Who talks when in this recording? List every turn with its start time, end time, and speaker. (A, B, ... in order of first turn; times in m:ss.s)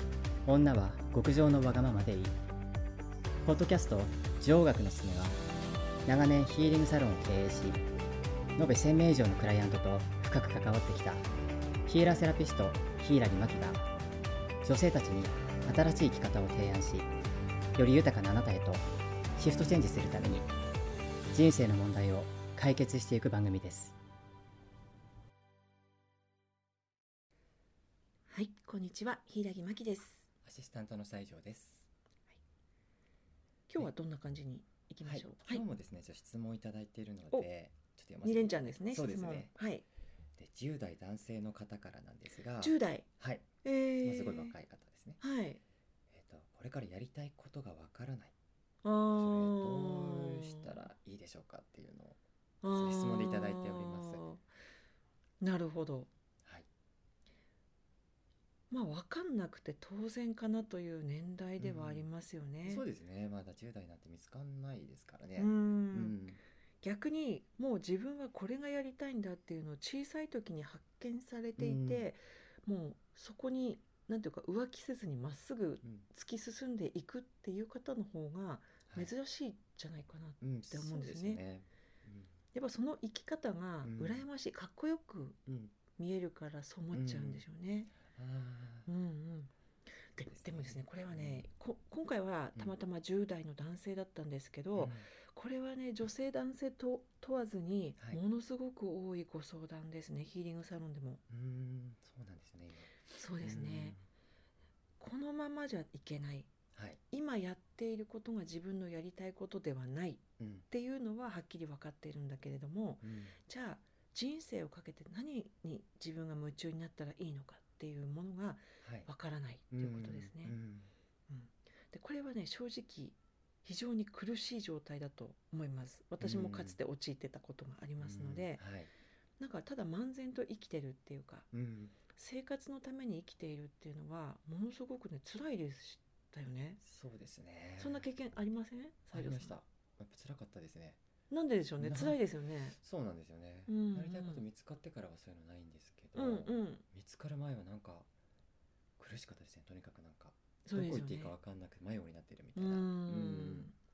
0:00.4-0:02.4 A
0:03.4-0:05.4 A
0:06.0-0:07.8 A
0:08.6-0:11.3 A
0:11.8-0:13.8 A
0:14.6-0:17.1 A
0:17.8-0:18.8 A
0:19.4-0:20.5 A
0:21.3-0:23.9 A
0:28.3-0:30.2 B
0:30.4-0:31.9 C
0:33.7-0:35.6 B
0:35.0-0:39.5 C
0:38.2-0:39.8 B
0:40.4-0:45.2 C
0:42.6-0:43.1 B
0:43.6-0:44.6 B
0:45.2-0:45.6 B
0:46.1-0:48.3 C
0:48.8-0:50.8 B
0:49.1-0:54.2 C
0:52.6-0:54.4 B
0:55.4-0:56.1 B
0:58.7-1:02.8 B
1:01.6-1:02.0 C
1:02.6-1:06.4 C
1:05.4-1:06.2 B
1:06.8-1:21.4 B
1:11.6-1:12.1 C
1:18.9-1:19.1 C
1:20.4-1:22.3 C
1:22.5-1:25.4 B
1:23.8-1:24.2 C
1:25.4-1:25.7 C
1:25.9-1:27.9 B
1:26.9-1:27.4 C
1:27.9-1:28.9 C
1:28.9-1:29.5 B
1:30.1-1:41.2 B
1:30.3-1:31.5 C
1:34.7-1:35.1 C
1:41.3-1:44.0 C
1:43.1-1:44.0 B
1:45.0-1:46.5 B
1:46.7-1:47.0 C
1:47.1-2:00.6 B
1:50.4-1:50.6 C
1:53.0-1:53.4 C
1:58.8-1:59.1 C
1:59.7-2:00.9 C
2:01.3-2:08.6 B
2:06.2-2:06.8 C
2:08.0-2:08.9 C
2:09.4-2:11.5 B
2:11.5-2:12.0 C
2:12.1-2:16.8 B
2:16.8-2:18.1 C
2:17.8-2:19.6 B
2:19.1-2:21.0 C
2:21.3-2:22.8 B
2:21.8-2:28.1 C
2:23.7-2:24.4 B
2:26.1-2:26.8 B
2:29.0-2:33.7 C
2:30.6-2:31.3 B
2:32.5-2:33.8 B